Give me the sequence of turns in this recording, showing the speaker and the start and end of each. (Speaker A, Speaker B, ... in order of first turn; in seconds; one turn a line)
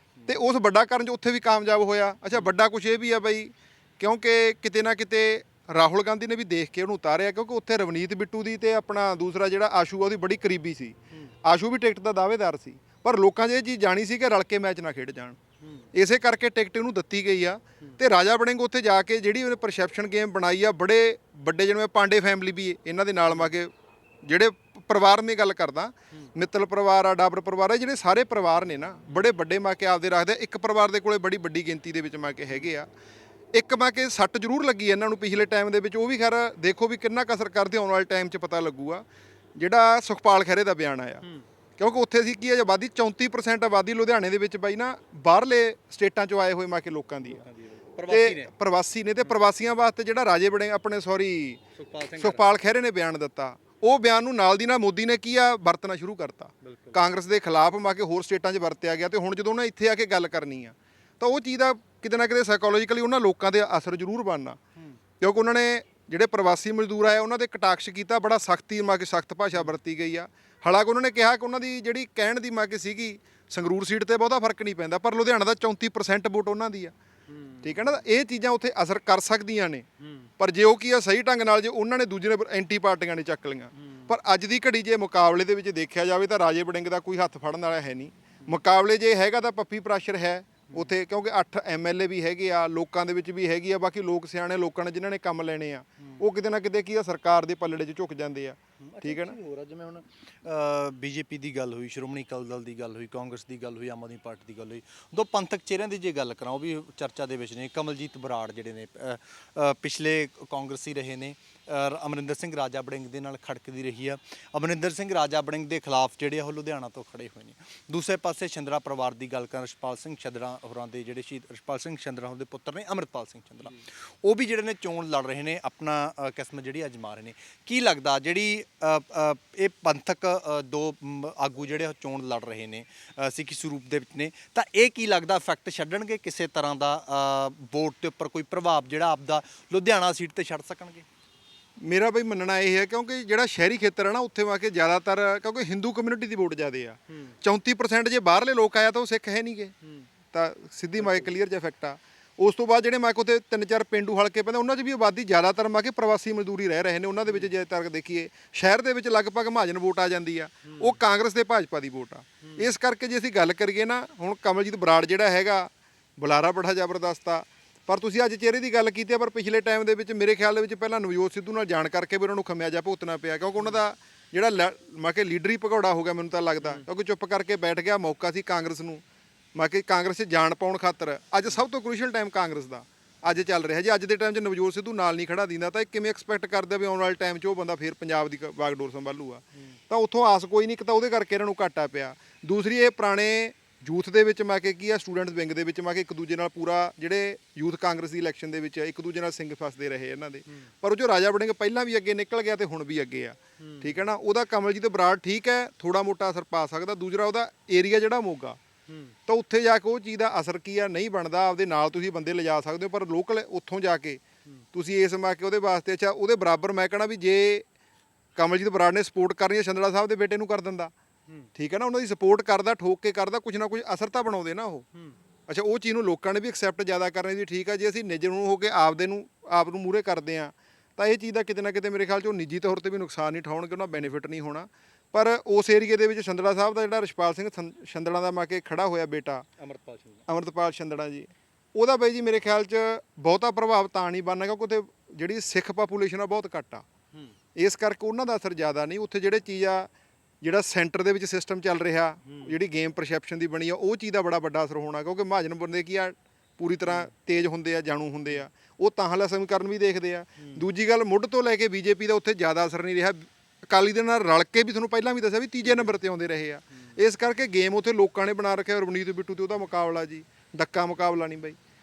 Speaker A: 0.2-0.4
Speaker B: 0.3-15.4
Speaker A: 15.6-15.9
Speaker B: 15.9-23.7
Speaker B: 24.2-32.9
Speaker B: 33.5-39.0
Speaker B: 39.6-41.2
Speaker B: 41.8-47.4
Speaker A: 47.4-48.5
Speaker B: 48.1-51.6
Speaker A: 51.8-52.5
Speaker B: 52.1-64.6
Speaker A: 56.6-57.0
Speaker B: 65.2-77.0
Speaker A: 77.3-78.0
Speaker B: 77.6-79.9
Speaker A: 80.0-80.3
Speaker B: 80.4-99.4
Speaker A: 83.8-84.1
Speaker A: 98.8-141.1
Speaker B: 141.8-149.7
Speaker A: 147.1-147.4
Speaker B: 150.3-179.0
Speaker A: 151.0-151.3
Speaker A: 160.7-161.0
Speaker A: 162.4-162.8
Speaker B: 179.6-208.6
Speaker A: 203.6-204.1
Speaker A: 208.9-209.2
Speaker B: 209.3-214.2
Speaker B: 214.7-217.7
Speaker B: 218.4-220.9
Speaker B: 221.6-224.9
Speaker B: 225.5-239.5
Speaker A: 239.6-240.2
Speaker B: 240.3-246.8
Speaker B: 247.6-249.9
Speaker B: 250.4-271.6
Speaker A: 252.3-252.5
Speaker A: 265.6-266.0